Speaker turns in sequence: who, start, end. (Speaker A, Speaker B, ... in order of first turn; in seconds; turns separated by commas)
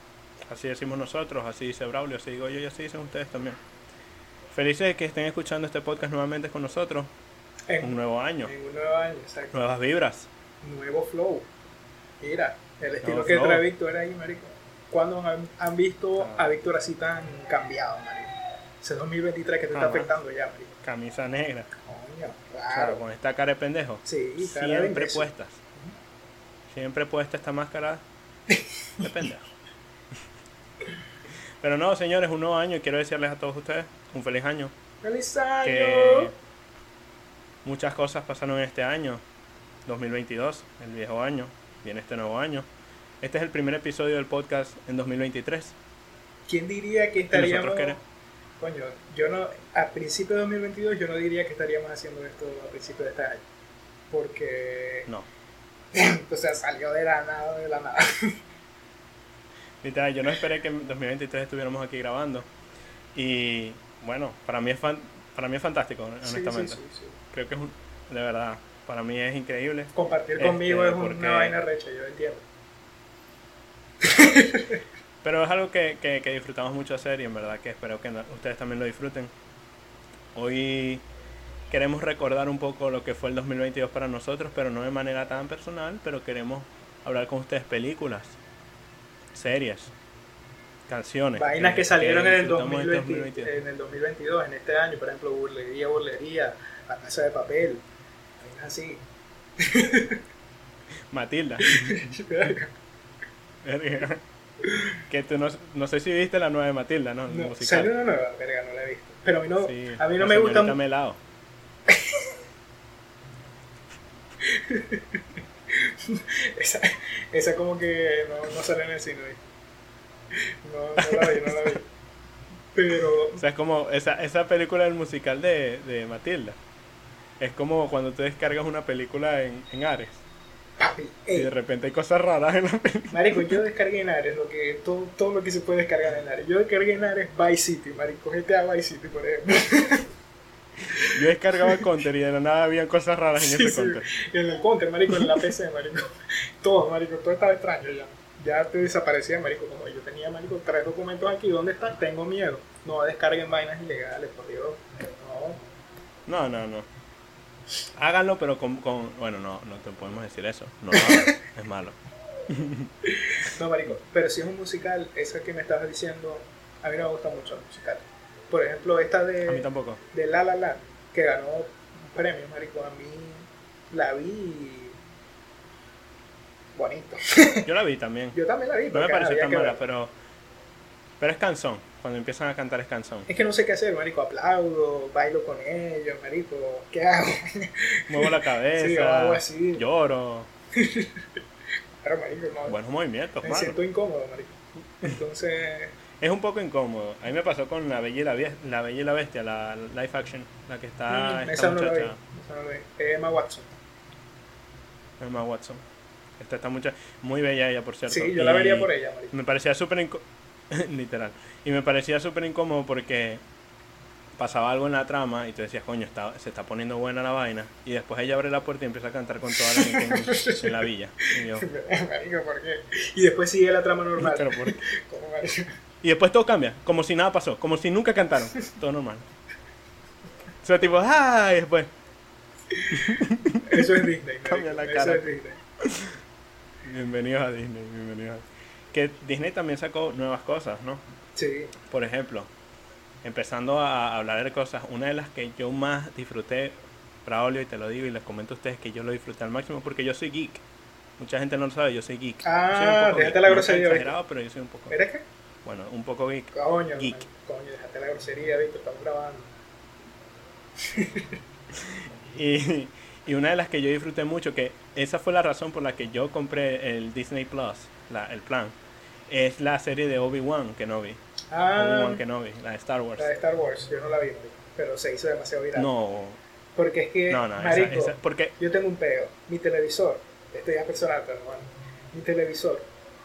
Speaker A: 0.4-3.6, Speaker A: 4.5-7.1, Speaker B: 7.7-9.5, Speaker A: 7.8-8.5, Speaker A: 9.5-10.3, Speaker B: 10.6-11.5, Speaker B: 12.2-20.7, Speaker A: 13.0-13.7, Speaker A: 16.2-16.5, Speaker A: 19.7-20.1, Speaker A: 20.8-21.7, Speaker B: 21.8-23.0, Speaker A: 22.7-25.6, Speaker B: 24.0-25.3, Speaker A: 26.7-28.0, Speaker B: 28.5-29.1, Speaker A: 29.0-29.5, Speaker A: 31.6-34.7, Speaker B: 35.0-36.3, Speaker A: 35.6-36.3, Speaker A: 37.6-39.2, Speaker A: 39.9-42.7, Speaker A: 43.2-45.8, Speaker B: 46.5-48.0, Speaker A: 47.3-48.0, Speaker B: 48.6-53.4, Speaker B: 54.1-55.1, Speaker B: 55.9-58.4, Speaker A: 59.8-62.5, Speaker A: 63.1-66.8, Speaker B: 66.2-67.2, Speaker A: 67.3-71.5, Speaker B: 69.9-72.4, Speaker B: 74.0-74.8, Speaker A: 75.2-79.3, Speaker A: 80.3-81.0, Speaker A: 81.7-88.4, Speaker A: 89.3-89.9, Speaker A: 90.9-93.5, Speaker B: 91.3-97.8, Speaker B: 98.4-99.0, Speaker B: 99.6-100.2, Speaker A: 101.1-102.1, Speaker B: 101.6-102.7, Speaker A: 103.6-104.2, Speaker B: 104.6-105.0, Speaker A: 105.1-107.9, Speaker B: 107.3-110.8, Speaker A: 109.6-111.2, Speaker B: 111.9-112.3, Speaker B: 114.4-119.4, Speaker B: 120.3-121.9, Speaker A: 121.0-121.8, Speaker B: 122.7-123.4, Speaker A: 123.3-126.6, Speaker A: 127.4-130.2, Speaker B: 130.8-131.5, Speaker A: 131.3-133.6, Speaker B: 133.1-140.1, Speaker B: 140.8-141.8, Speaker A: 141.1-144.1, Speaker B: 143.4-155.6, Speaker A: 145.1-145.5, Speaker A: 156.3-156.9, Speaker A: 157.9-162.0, Speaker B: 160.9-161.3, Speaker A: 162.5-162.9, Speaker B: 163.0-175.0, Speaker A: 169.4-170.0, Speaker B: 176.8-177.7, Speaker A: 177.7-178.3, Speaker B: 178.3-179.8, Speaker A: 178.9-180.1, Speaker A: 181.2-183.3, Speaker B: 183.3-189.8, Speaker A: 188.1-190.5, Speaker B: 190.7-191.2, Speaker B: 192.0-192.8, Speaker A: 192.7-193.8, Speaker B: 193.4-195.9, Speaker A: 196.2-202.2, Speaker B: 201.1-203.8, Speaker A: 205.2-205.8, Speaker A: 206.4-213.4, Speaker B: 208.1-209.3, Speaker A: 214.4-221.7, Speaker B: 219.5-225.8, Speaker A: 224.2-224.8, Speaker A: 226.0-229.2, Speaker A: 230.6-231.9, Speaker B: 232.7-235.6, Speaker A: 232.9-233.9, Speaker A: 234.4-235.2, Speaker A: 235.8-236.2, Speaker A: 236.8-241.0, Speaker B: 241.3-241.7, Speaker A: 241.9-242.5, Speaker A: 243.2-250.6, Speaker A: 251.2-254.9, Speaker B: 252.4-254.1, Speaker B: 254.9-255.2, Speaker A: 255.6-257.2, Speaker B: 256.5-259.5, Speaker B: 260.8-261.3, Speaker A: 261.8-268.7, Speaker A: 269.3-271.2, Speaker B: 271.5-272.2, Speaker A: 271.8-273.3, Speaker B: 273.2-275.9, Speaker A: 275.8-276.4, Speaker B: 276.8-282.9, Speaker A: 277.3-278.5